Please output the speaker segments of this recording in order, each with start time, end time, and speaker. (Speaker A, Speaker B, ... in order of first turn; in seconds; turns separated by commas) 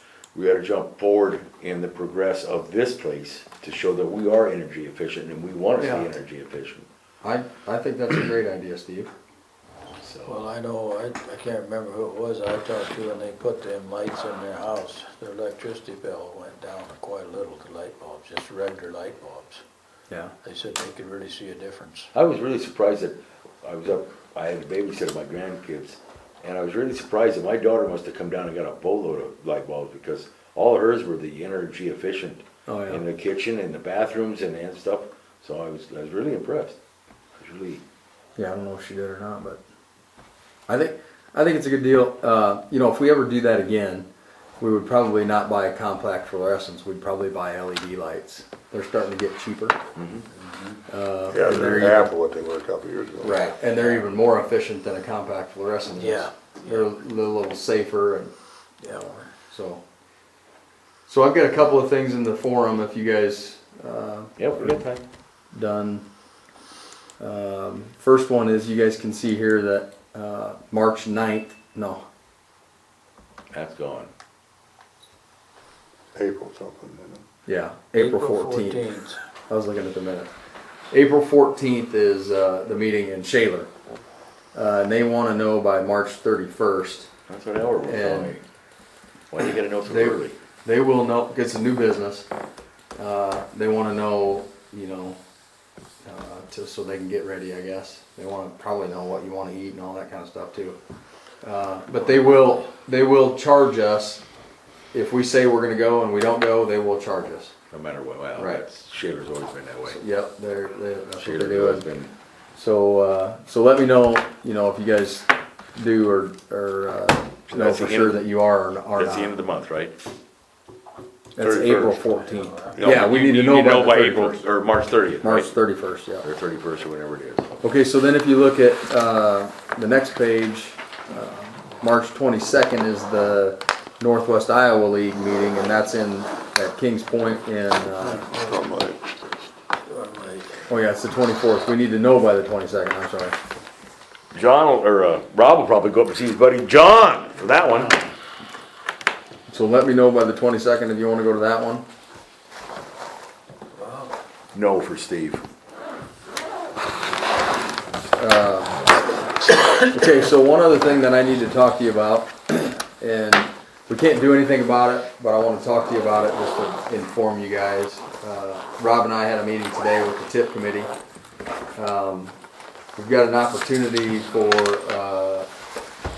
Speaker A: 0.3-6.9, Speaker B: 5.8-6.1, Speaker B: 7.2-9.1, Speaker A: 10.0-10.4, Speaker C: 10.2-19.6, Speaker C: 20.4-22.1, Speaker A: 22.1-36.8, Speaker B: 32.7-33.0, Speaker A: 37.4-37.8, Speaker B: 38.4-39.6, Speaker B: 40.7-44.1, Speaker B: 44.6-49.8, Speaker A: 50.0-50.3, Speaker C: 50.3-50.8, Speaker B: 50.9-52.1, Speaker D: 51.3-53.4, Speaker B: 53.2-58.3, Speaker C: 55.9-56.9, Speaker C: 58.8-59.3, Speaker B: 58.9-59.8, Speaker B: 61.1-64.8, Speaker A: 64.4-65.0, Speaker B: 65.5-66.0, Speaker B: 67.2-72.0, Speaker A: 73.5-74.1, Speaker D: 76.2-77.2, Speaker B: 77.5-78.8, Speaker C: 77.9-79.2, Speaker B: 79.5-80.3, Speaker B: 80.9-83.7, Speaker B: 84.5-87.1, Speaker A: 87.3-88.4, Speaker B: 87.8-88.4, Speaker A: 89.3-90.4, Speaker B: 89.9-92.3, Speaker B: 93.0-95.2, Speaker B: 96.0-100.8, Speaker B: 101.4-104.2, Speaker B: 104.9-107.5, Speaker A: 107.7-110.0, Speaker B: 108.4-108.7, Speaker B: 109.9-111.9, Speaker A: 111.2-112.1, Speaker B: 112.6-119.4, Speaker A: 117.5-118.2, Speaker A: 119.0-120.0, Speaker B: 121.3-124.4, Speaker D: 121.4-122.0, Speaker C: 122.0-122.8, Speaker A: 122.8-125.5, Speaker B: 125.2-126.3, Speaker A: 126.2-127.6, Speaker B: 127.6-138.3, Speaker D: 138.4-139.2, Speaker C: 139.9-140.7, Speaker B: 140.7-143.4, Speaker A: 144.3-148.0, Speaker B: 149.5-151.8, Speaker C: 153.8-154.2, Speaker A: 154.5-155.4, Speaker B: 158.2-159.0, Speaker B: 159.9-170.9, Speaker B: 171.8-172.3, Speaker B: 173.0-175.5